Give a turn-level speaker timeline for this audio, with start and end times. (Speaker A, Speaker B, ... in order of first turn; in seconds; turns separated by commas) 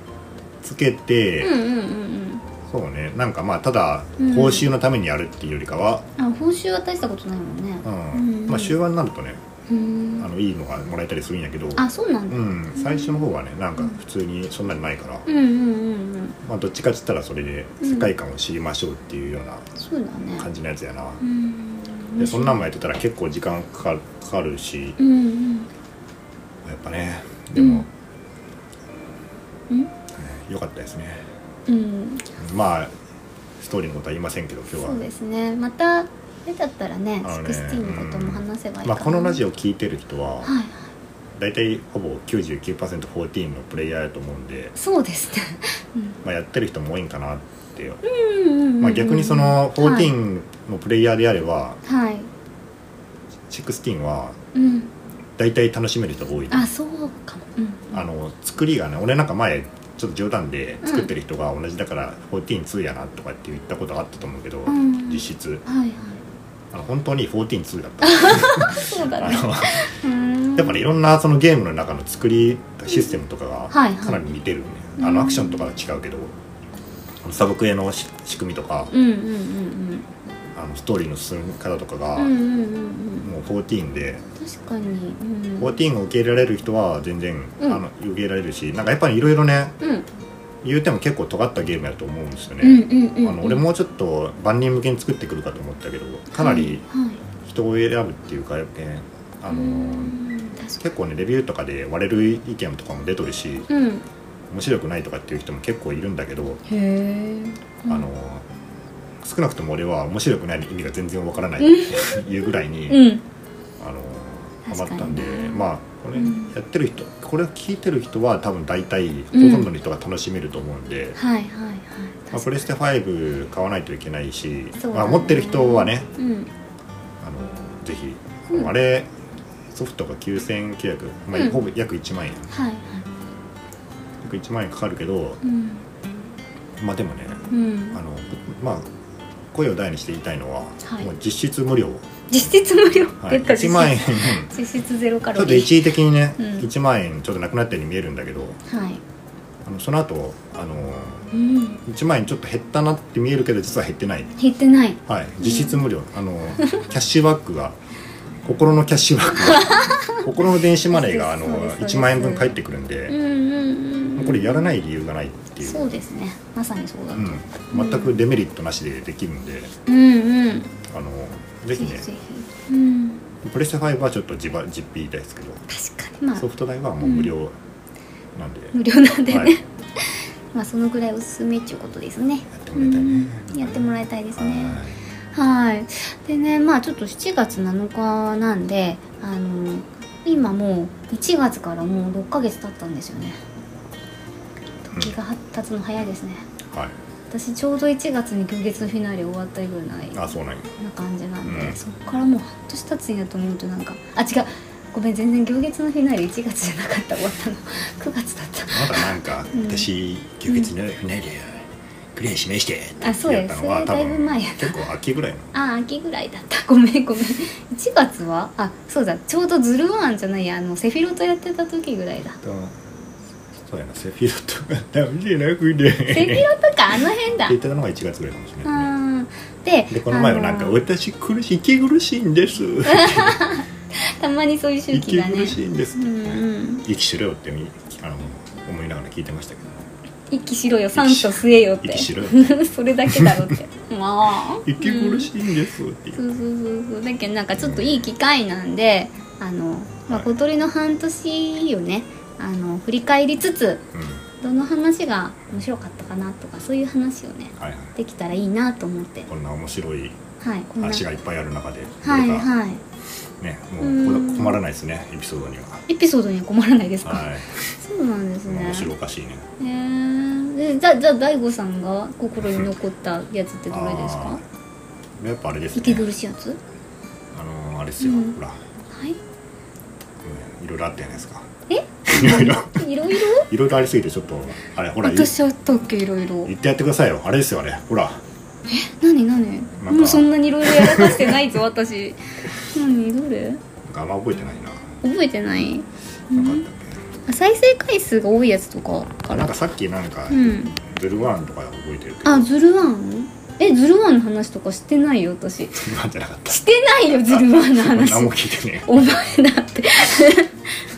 Speaker A: 0.6-1.6, Speaker B: 1.4-2.4, Speaker A: 2.7-6.1, Speaker B: 4.2-4.7, Speaker B: 6.2-8.8, Speaker A: 7.8-9.4, Speaker B: 9.7-10.3, Speaker A: 10.2-15.3, Speaker B: 11.8-14.0, Speaker B: 15.3-16.4, Speaker A: 16.4-19.7, Speaker B: 17.8-18.1, Speaker B: 19.8-20.5, Speaker A: 20.4-21.2, Speaker B: 21.2-22.6, Speaker A: 22.2-25.0, Speaker B: 25.0-25.7, Speaker A: 26.6-27.9, Speaker B: 27.6-27.9, Speaker A: 30.1-31.2, Speaker B: 31.7-32.3, Speaker A: 32.4-32.9, Speaker A: 33.6-35.0, Speaker B: 34.8-39.4, Speaker A: 37.2-40.5, Speaker B: 40.4-40.9, Speaker A: 41.4-44.7, Speaker B: 44.8-46.2, Speaker A: 46.2-48.0, Speaker B: 48.0-50.1, Speaker A: 48.8-51.8, Speaker B: 51.9-52.3, Speaker A: 53.5-54.4, Speaker B: 54.5-54.9, Speaker A: 55.4-56.7, Speaker B: 56.5-58.0, Speaker A: 57.9-65.6, Speaker B: 60.8-61.1, Speaker B: 64.7-66.2, Speaker A: 66.7-69.9, Speaker B: 68.0-70.8, Speaker A: 70.6-76.3, Speaker B: 73.7-74.2, Speaker B: 75.0-75.7, Speaker A: 77.2-78.9, Speaker B: 78.9-80.1, Speaker A: 80.5-82.3, Speaker B: 82.2-83.3, Speaker A: 83.2-84.2, Speaker B: 84.4-85.8, Speaker A: 85.6-89.8, Speaker A: 90.6-96.8, Speaker B: 92.6-93.7, Speaker B: 96.3-97.2, Speaker A: 97.4-100.2, Speaker B: 99.5-100.8, Speaker A: 100.8-103.7, Speaker B: 103.7-104.1, Speaker A: 104.5-106.6, Speaker B: 106.7-108.1, Speaker A: 107.9-108.5, Speaker A: 109.2-113.1, Speaker B: 111.6-112.3, Speaker B: 112.9-113.2, Speaker A: 113.8-121.2, Speaker B: 114.7-116.5, Speaker B: 119.3-119.7, Speaker B: 121.2-122.5, Speaker A: 122.3-126.1, Speaker B: 124.8-126.5, Speaker A: 127.2-129.1, Speaker A: 129.7-132.5, Speaker B: 131.3-131.6, Speaker B: 132.5-133.1, Speaker A: 134.2-135.4, Speaker B: 135.4-135.8, Speaker A: 136.8-138.9, Speaker B: 137.5-138.0, Speaker A: 139.5-142.1, Speaker B: 140.8-141.1, Speaker B: 142.3-145.9, Speaker A: 143.2-144.5, Speaker A: 145.3-148.6, Speaker B: 146.4-146.7, Speaker B: 148.7-149.0, Speaker A: 149.7-151.3, Speaker B: 151.3-151.8, Speaker A: 151.8-154.3, Speaker B: 154.4-155.8, Speaker A: 155.1-157.8, Speaker A: 158.4-163.2, Speaker B: 159.5-160.2, Speaker B: 160.9-164.7, Speaker A: 164.2-165.9, Speaker B: 165.6-168.2, Speaker A: 167.2-169.7, Speaker B: 169.9-170.8, Speaker A: 170.9-172.1, Speaker B: 171.8-173.2, Speaker A: 173.4-175.6, Speaker B: 175.7-176.5, Speaker A: 176.4-177.6, Speaker B: 177.0-177.3, Speaker A: 178.3-178.8, Speaker B: 178.7-184.8, Speaker A: 182.5-185.0, Speaker B: 185.3-193.4, Speaker B: 194.8-196.4, Speaker A: 196.7-196.9, Speaker B: 197.3-200.2, Speaker A: 200.1-200.7, Speaker B: 200.8-209.9, Speaker A: 201.4-201.8, Speaker A: 208.7-215.5, Speaker B: 213.0-214.8, Speaker B: 215.5-222.4, Speaker A: 222.4-222.8, Speaker A: 223.6-226.5, Speaker B: 226.1-227.6, Speaker A: 227.5-228.9, Speaker B: 228.7-230.8, Speaker A: 229.9-233.5, Speaker B: 232.9-236.8, Speaker A: 234.9-239.8, Speaker B: 240.3-245.3, Speaker A: 240.9-243.4, Speaker A: 244.6-246.3, Speaker B: 246.2-253.9, Speaker A: 247.6-248.1, Speaker A: 253.9-254.2, Speaker B: 254.4-259.3, Speaker A: 257.6-257.9, Speaker A: 259.3-260.2, Speaker B: 260.4-261.0, Speaker A: 260.8-262.5, Speaker B: 262.0-262.8, Speaker A: 263.4-265.9, Speaker B: 263.8-264.6, Speaker B: 265.9-268.9, Speaker A: 267.0-267.7, Speaker A: 268.5-269.4, Speaker B: 269.6-274.4, Speaker A: 273.7-274.4, Speaker A: 275.2-276.1, Speaker B: 275.7-276.6, Speaker A: 277.3-278.6, Speaker B: 278.0-278.4, Speaker B: 278.9-279.2, Speaker A: 280.2-281.5, Speaker B: 281.7-283.5, Speaker A: 282.1-285.3, Speaker B: 285.0-286.5, Speaker A: 286.4-288.2, Speaker B: 288.7-293.6, Speaker A: 289.8-291.4, Speaker A: 293.8-294.9, Speaker B: 295.0-296.6, Speaker A: 296.3-297.0, Speaker B: 297.3-299.5, Speaker A: 299.3-302.5, Speaker B: 300.3-300.8, Speaker B: 302.2-305.9, Speaker A: 305.7-308.9, Speaker B: 306.5-310.6